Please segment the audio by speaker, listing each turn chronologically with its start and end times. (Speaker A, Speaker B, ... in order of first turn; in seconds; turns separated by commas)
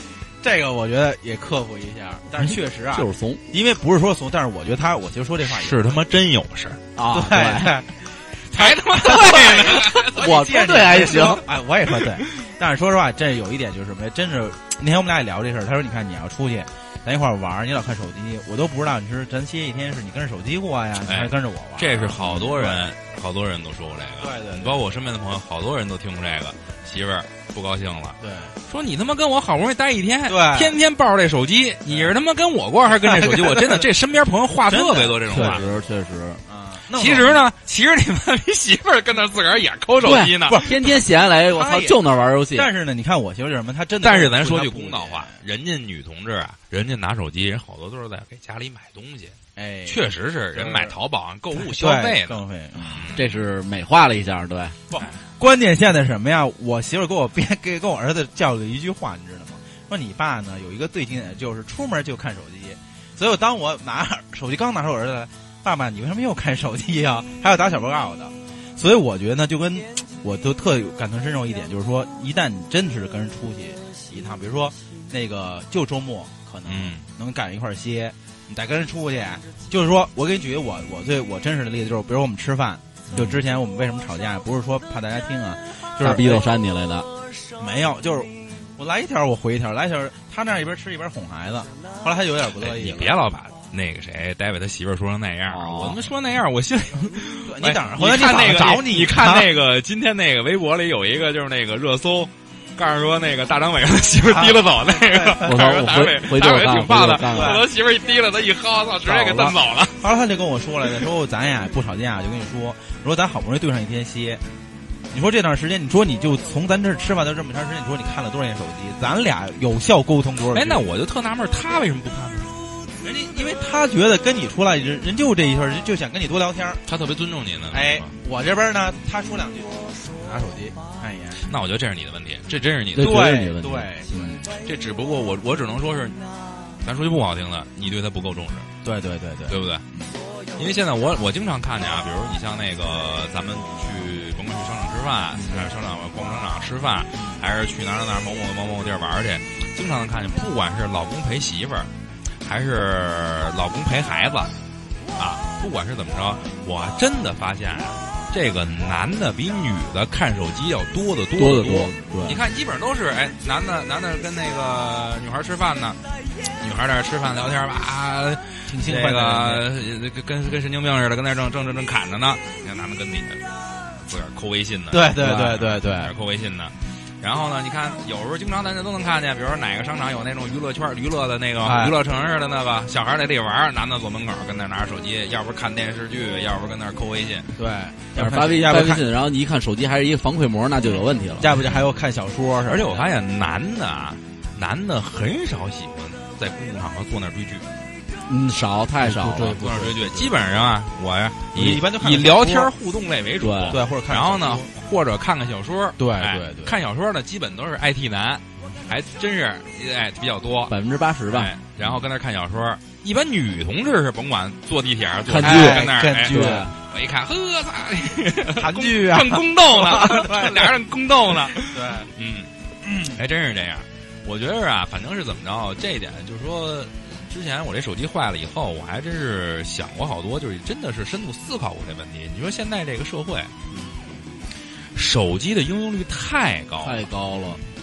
Speaker A: 0.4-6.0, Speaker B: 2.9-3.4, Speaker C: 5.4-6.8, Speaker B: 7.0-7.7, Speaker A: 7.1-22.9, Speaker C: 8.5-10.2, Speaker B: 9.9-11.4, Speaker C: 21.0-35.6, Speaker A: 24.2-24.8, Speaker A: 28.2-28.6, Speaker A: 30.3-30.8, Speaker A: 31.9-32.1, Speaker A: 32.9-33.9, Speaker A: 34.7-35.8, Speaker B: 35.3-36.4, Speaker A: 36.5-37.4, Speaker C: 36.9-40.6, Speaker B: 40.0-42.7, Speaker A: 40.4-45.4, Speaker C: 44.0-49.4, Speaker A: 49.5-51.0, Speaker C: 49.9-53.3, Speaker A: 51.5-53.1, Speaker B: 53.1-54.8, Speaker A: 54.9-86.5, Speaker C: 76.7-77.0, Speaker B: 86.0-87.1, Speaker A: 87.6-93.2, Speaker C: 92.6-110.0, Speaker B: 95.5-96.0, Speaker A: 97.4-99.5, Speaker A: 104.2-105.5, Speaker B: 105.4-107.6, Speaker A: 107.3-107.7, Speaker A: 109.1-114.4, Speaker A: 115.1-120.8, Speaker C: 120.5-122.5, Speaker A: 123.0-126.8, Speaker C: 126.8-128.1, Speaker A: 127.7-131.4, Speaker C: 131.4-133.3, Speaker B: 132.9-134.4, Speaker A: 133.0-134.4, Speaker C: 134.5-136.2, Speaker C: 136.8-138.7, Speaker A: 138.8-140.2, Speaker C: 139.5-139.8, Speaker C: 140.6-151.9, Speaker A: 145.4-145.7, Speaker C: 152.4-154.5, Speaker C: 155.2-166.0, Speaker B: 161.3-162.4, Speaker C: 166.6-187.5, Speaker A: 168.7-169.7, Speaker A: 174.9-176.1, Speaker A: 181.6-182.0, Speaker A: 187.6-189.1, Speaker B: 188.1-191.5, Speaker A: 191.4-193.1, Speaker C: 192.6-197.7, Speaker B: 198.3-199.6, Speaker A: 199.0-200.4, Speaker C: 199.6-210.7, Speaker A: 201.5-202.7, Speaker B: 203.4-203.8, Speaker A: 203.7-204.7, Speaker A: 206.0-206.8, Speaker B: 210.7-211.5, Speaker C: 211.3-233.5, Speaker B: 215.3-216.7, Speaker A: 215.4-216.7, Speaker A: 218.5-220.8, Speaker A: 221.3-222.1, Speaker A: 222.8-223.2, Speaker C: 234.9-237.1, Speaker B: 236.8-237.6